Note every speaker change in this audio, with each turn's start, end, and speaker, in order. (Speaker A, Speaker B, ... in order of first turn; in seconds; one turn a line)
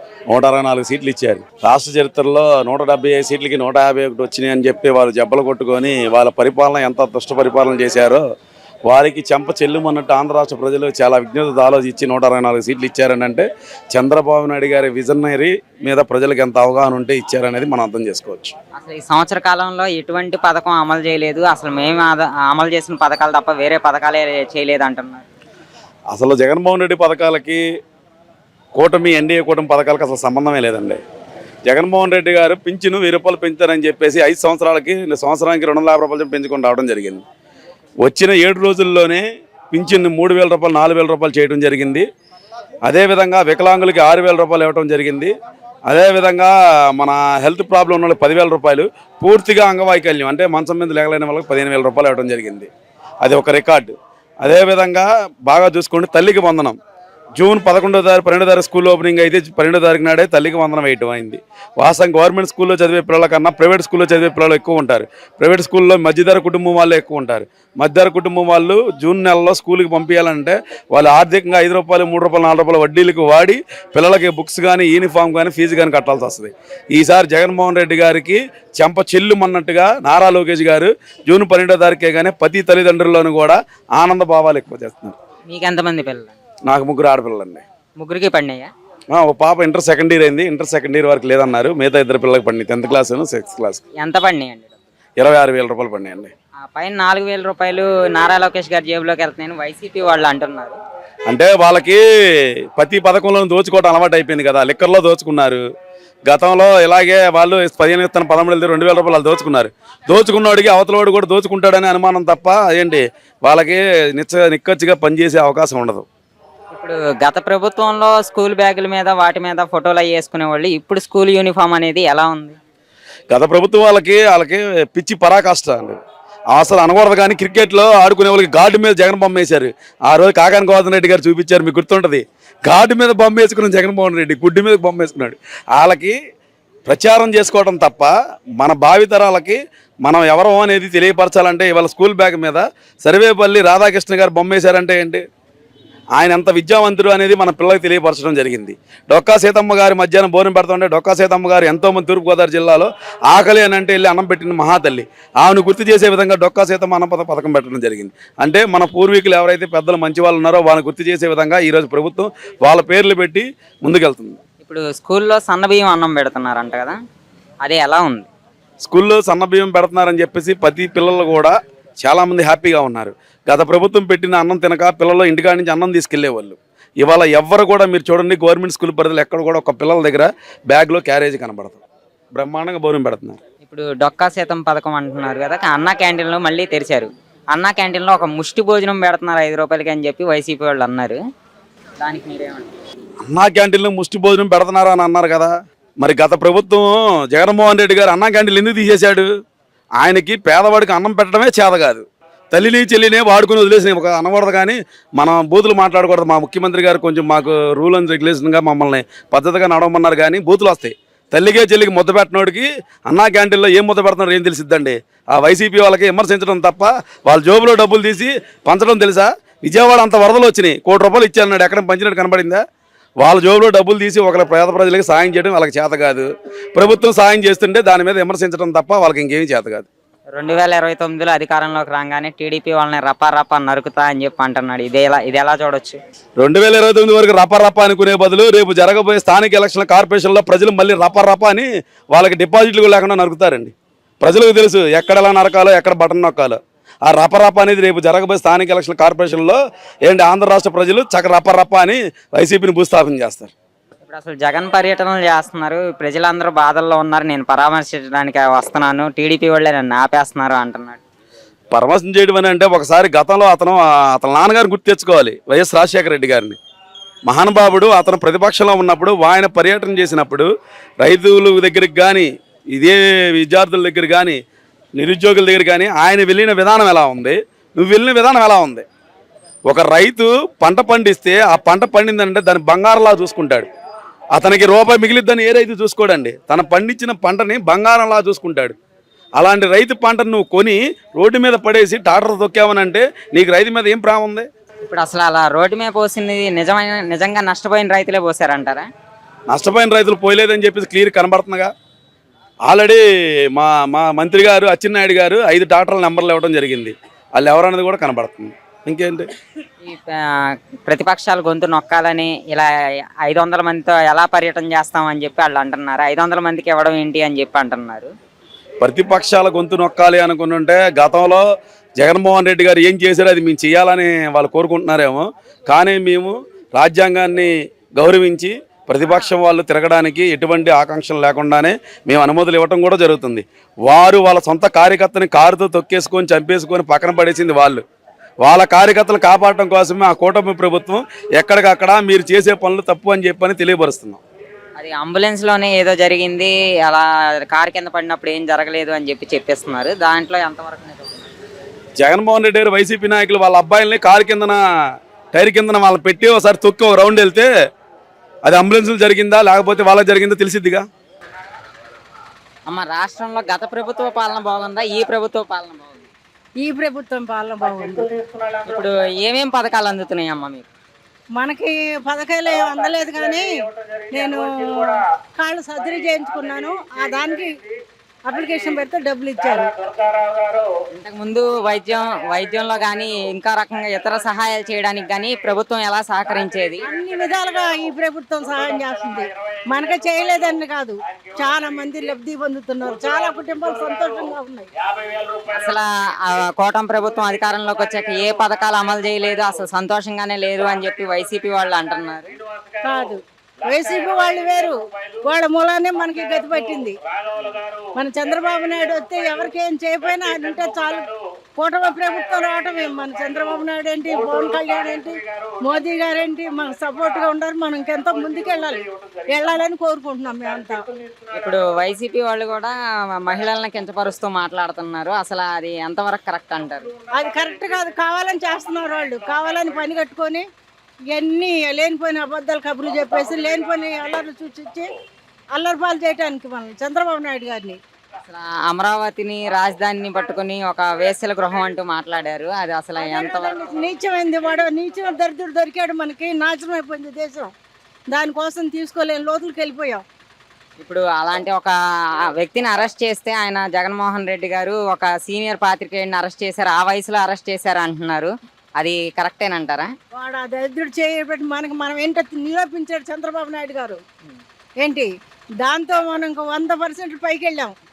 Speaker A: 0.3-8.2
Speaker A: 8.9-18.5
Speaker B: 18.8-25.3
Speaker A: 26.1-27.6
Speaker A: 28.7-31.0
Speaker A: 31.7-37.2
Speaker A: 38.0-42.0
Speaker A: 42.8-45.3
Speaker A: 45.9-52.7
Speaker A: 53.2-56.8
Speaker A: 57.4-85.2
Speaker B: 85.5-86.4
Speaker A: 86.7-87.6
Speaker B: 88.0-88.7
Speaker A: 89.1-93.8
Speaker B: 94.0-94.7
Speaker A: 95.2-96.3
Speaker B: 96.7-100.8
Speaker A: 101.3-105.6
Speaker A: 106.3-116.0
Speaker B: 116.7-122.6
Speaker A: 123.3-126.0
Speaker A: 126.5-136.2
Speaker A: 136.9-145.2
Speaker A: 146.2-164.4
Speaker B: 164.6-167.0
Speaker B: 167.6-168.3
Speaker A: 168.8-181.8
Speaker A: 182.3-183.4
Speaker B: 183.6-191.2
Speaker B: 192.0-192.7
Speaker A: 193.2-199.3
Speaker A: 200.0-222.6
Speaker A: 223.2-229.9
Speaker B: 230.3-236.0
Speaker A: 236.4-253.5
Speaker B: 254.0-261.0
Speaker A: 261.7-266.6
Speaker A: 267.3-270.5
Speaker A: 271.0-274.4
Speaker A: 274.9-278.9
Speaker A: 279.7-283.7
Speaker A: 284.3-288.8
Speaker A: 289.4-294.5
Speaker B: 294.8-298.9
Speaker A: 299.5-301.7
Speaker A: 302.6-309.3
Speaker B: 309.8-310.3
Speaker B: 310.9-312.7
Speaker B: 313.2-318.1
Speaker A: 318.8-321.4
Speaker A: 322.0-337.8
Speaker A: 338.4-344.2
Speaker B: 344.8-351.3
Speaker A: 352.0-354.6
Speaker A: 355.3-357.5
Speaker A: 358.4-360.9
Speaker B: 362.7-366.1
Speaker C: 366.6-368.1
Speaker B: 368.6-370.7
Speaker C: 371.4-373.5
Speaker C: 374.1-377.5
Speaker C: 378.2-379.8
Speaker B: 380.9-386.9
Speaker C: 386.9-394.7
Speaker B: 395.4-402.4
Speaker C: 402.8-407.0
Speaker C: 407.9-420.8
Speaker B: 421.3-426.9
Speaker C: 427.1-430.4
Speaker C: 431.1-434.9
Speaker C: 435.6-437.8
Speaker B: 438.2-443.7
Speaker C: 443.0-447.5
Speaker C: 448.1-450.0
Speaker B: 450.8-451.7
Speaker B: 452.4-459.9
Speaker C: 460.1-464.0
Speaker C: 464.8-465.1
Speaker C: 465.6-467.8